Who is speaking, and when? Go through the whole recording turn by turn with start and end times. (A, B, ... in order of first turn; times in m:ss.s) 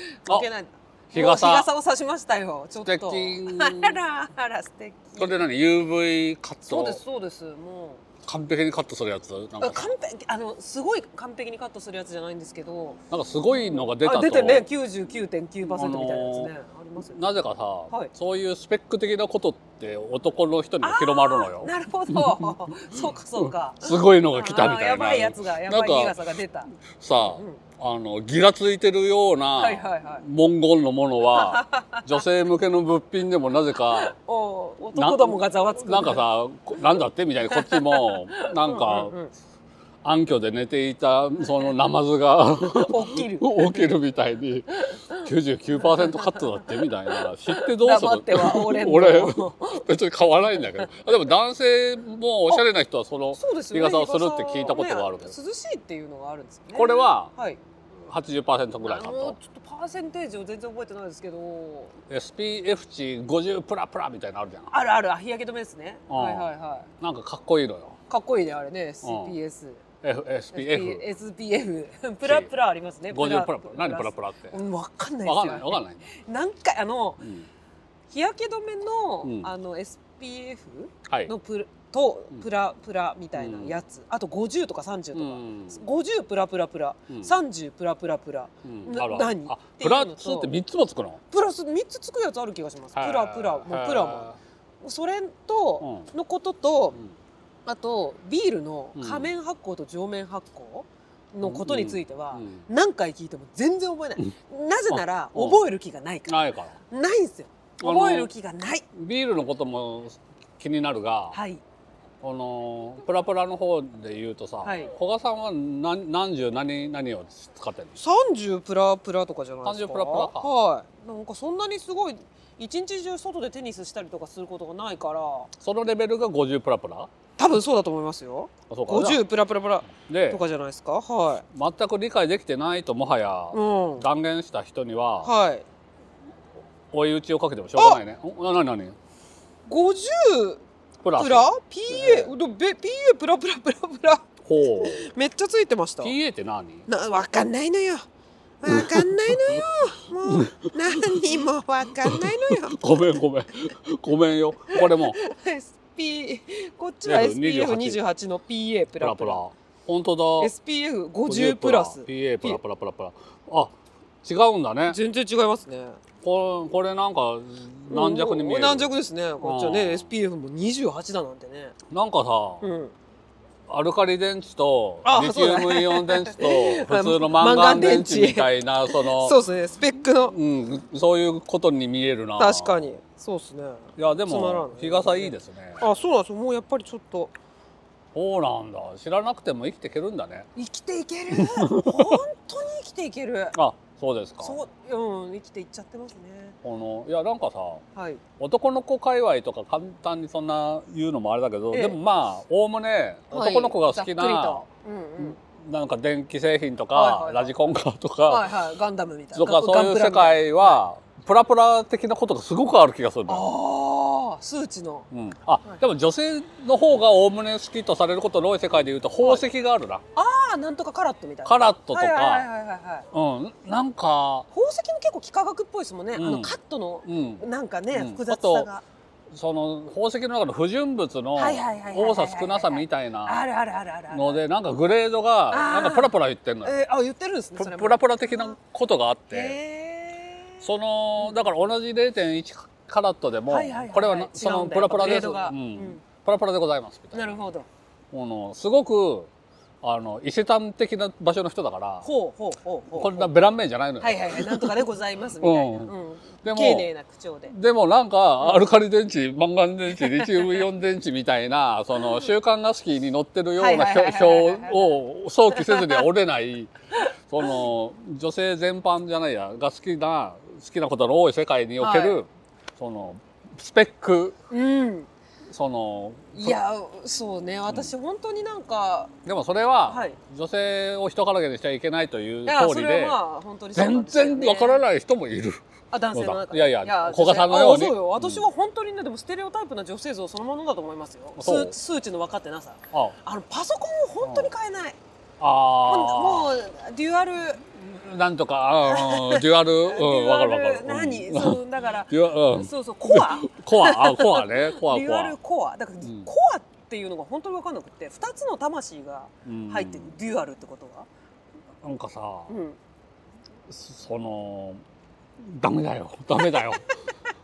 0:00.2-0:05.4 A
0:01.1-0:01.7 B
0:02.8-0:04.0 B
0:05.2-0:07.0 B
0:06.7-0:08.0 A
0:08.2-0:09.9 B
0:09.6-0:13.0 A
0:13.1-0:14.7 B
0:13.7-0:17.2 A
0:15.6-0:16.5 B
0:17.1-0:22.5 B
0:20.8-0:26.7 A
0:23.4-0:26.2 B
0:26.8-0:34.1 B
0:27.2-0:27.6 A
0:29.6-0:30.2 A
0:31.3-0:32.1 A
0:33.9-0:36.2 A
0:34.9-0:39.1 B
0:37.5-0:39.3 A
0:40.0-0:55.3 B
0:42.7-0:43.8 A
0:44.9-0:49.7 A
0:53.4-0:57.6 A
0:56.7-0:57.3 B
0:58.0-0:59.4 B
0:58.8-1:01.9 A
1:02.1-1:04.7 B
1:04.7-1:06.9 A
1:06.1-1:08.0 B
1:08.1-1:09.8 A
1:09.0-1:09.4 B
1:10.0-1:11.0 B
1:10.5-1:17.3 A
1:12.2-1:12.5 B
1:13.1-1:14.6 B
1:15.2-1:16.1 B
1:17.2-1:17.5 B
1:18.1-1:30.5 A
1:19.2-1:19.5 B
1:21.1-1:21.3 B
1:23.4-1:23.8 B
1:25.1-1:25.8 B
1:28.6-1:31.2 B
1:31.3-1:37.0 A
1:32.9-1:34.4 B
1:35.8-1:36.1 B
1:37.6-1:48.8 A
1:39.0-1:39.3 B
1:41.4-1:42.6 B
1:44.9-1:45.6 B
1:46.3-1:46.8 B
1:47.8-1:48.3 B
1:48.9-1:51.4 B
1:51.3-1:51.6 A
1:52.2-1:58.0 B
1:54.6-1:54.9 A
1:58.0-2:05.5 A
1:59.6-2:00.5 B
2:05.6-2:07.1 B
2:07.4-2:11.4 A
2:08.7-2:09.2 B
2:09.9-2:10.4 B
2:11.5-2:15.3 B
2:13.5-2:14.0 A
2:15.2-2:15.6 A
2:16.9-2:19.0 B
2:19.7-2:20.6 A
2:21.0-2:22.3 B
2:21.2-2:26.1 A
2:24.4-2:25.1 B
2:26.0-2:26.9 B
2:26.9-2:28.1 A
2:28.6-2:32.8 A
2:28.7-2:29.6 B
2:30.2-2:31.2 B
2:32.0-2:35.2 B
2:34.7-2:39.4 A
2:37.0-2:38.0 B
2:39.0-2:40.5 B
2:40.4-2:42.6 A
2:41.2-2:45.0 B
2:44.9-2:46.0 A
2:46.2-2:50.1 B
2:47.9-2:51.8 A
2:51.9-2:52.6 B
2:52.6-2:52.9 A
2:53.7-2:59.4 B
2:55.0-3:00.4 A
3:00.2-3:02.9 B
3:02.4-3:07.3 A
3:04.0-3:05.8 B
3:08.1-3:10.5 B
3:10.6-3:13.6 A
3:11.3-3:12.2 B
3:13.5-3:14.6 B
3:14.4-3:16.6 A
3:16.6-3:17.8 B
3:17.9-3:18.2 A
3:18.4-3:24.6 B
3:21.7-3:22.0 A
3:23.3-3:25.4 A
3:25.2-3:28.5 B
3:26.9-3:27.5 A
3:28.3-3:30.8 A
3:29.3-3:33.5 B
3:33.3-3:35.1 A
3:35.1-3:40.0 B
3:40.1-3:43.1 A
3:41.4-3:42.5 B
3:43.1-3:44.4 B
3:44.5-3:48.8 A
3:46.1-3:48.7 B
3:49.3-3:53.4 B
3:51.4-3:54.4 A
3:54.1-3:56.8 B
3:55.5-3:58.6 A
3:57.6-3:59.6 B
3:59.3-4:00.6 A
4:00.6-4:07.5 B
4:03.5-4:06.0 A
4:07.1-4:07.7 A
4:08.1-4:09.3 B
4:09.8-4:12.1 B
4:12.0-4:13.4 A
4:12.9-4:14.8 B
4:14.0-4:17.5 A
4:15.4-4:15.9 B
4:16.4-4:16.9 B
4:17.5-4:34.4 B
4:20.0-4:20.6 A
4:23.6-4:25.0 A
4:25.5-4:26.0 A
4:31.8-4:32.2 A
4:34.5-4:35.1 A
4:35.5-4:36.6 B
4:36.3-4:39.1 A
4:39.2-4:43.2 B
4:39.9-4:40.2 A
4:42.4-4:44.8 A
4:43.7-4:48.4 B
4:45.9-4:55.0 A
4:51.4-4:51.8 B
4:54.2-4:54.5 B
4:55.4-4:56.5 B
4:55.8-4:57.6 A
4:57.7-5:05.4 B
4:58.8-5:11.1 A
5:06.0-5:06.3 B
5:09.4-5:10.1 B
5:11.8-5:12.5 B
5:12.5-5:12.8 A
5:13.7-5:14.8 B
5:15.4-5:16.8 B